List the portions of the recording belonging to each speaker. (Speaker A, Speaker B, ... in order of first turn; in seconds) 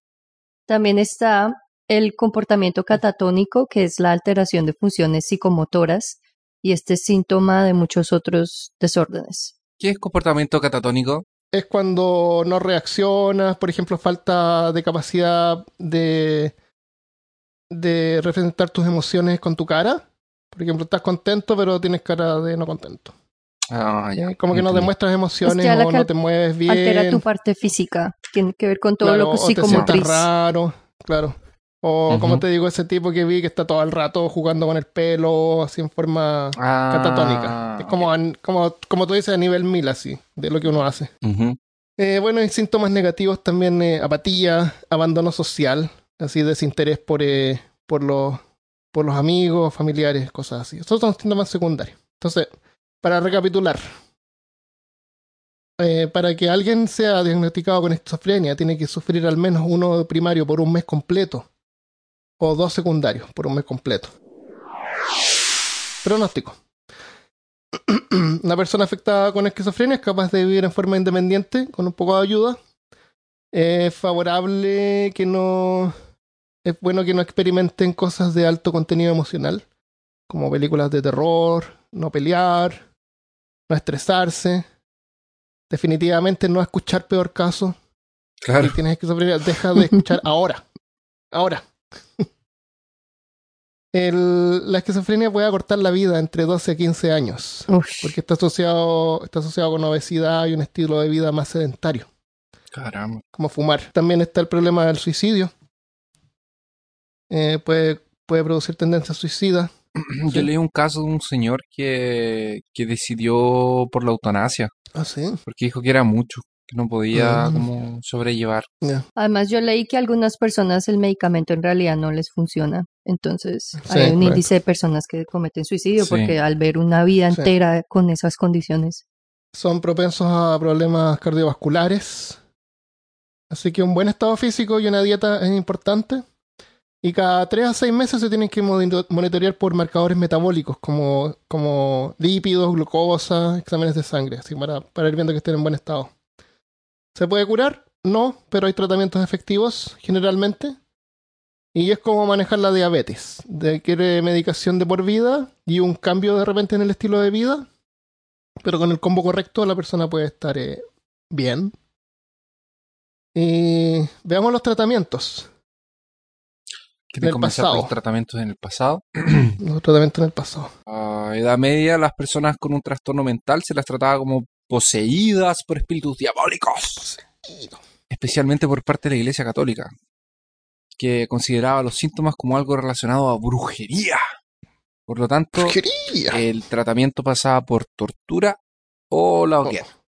Speaker A: 0.7-9.5, 25.4-26.1, 26.7-30.3, 97.7-98.1, 119.2-129.0
Speaker B: 9.8-11.2, 23.7-24.9, 29.6-29.9, 32.1-32.4, 36.5-38.1, 41.2-41.6, 88.4-88.8, 102.7-103.2, 110.0-114.7, 115.5-118.7, 126.0-126.3, 167.1-169.6, 170.9-177.1, 178.1-179.9, 180.9-184.2, 185.1-188.6, 189.1-189.9
Speaker C: 11.5-16.5, 17.7-23.1, 24.1-27.2, 29.0-41.1, 42.0-48.4, 48.9-52.5, 53.0-53.9, 55.8-61.5, 62.4-64.1, 66.0-66.5, 67.7-72.6, 73.5-75.9, 76.6-79.6, 80.3-82.8, 83.7-84.7, 85.7-87.8, 88.6-90.6, 91.3-91.7, 93.9-102.1, 103.3-105.5, 107.3-109.7, 114.9-115.4, 117.1-117.6, 123.9-124.4, 129.5-132.4, 133.5-136.2, 137.0-146.1, 147.1-150.8, 151.7-157.7, 158.6-161.7, 163.3-165.5, 167.2-167.9, 169.6-170.7, 177.0-177.8, 185.6-186.4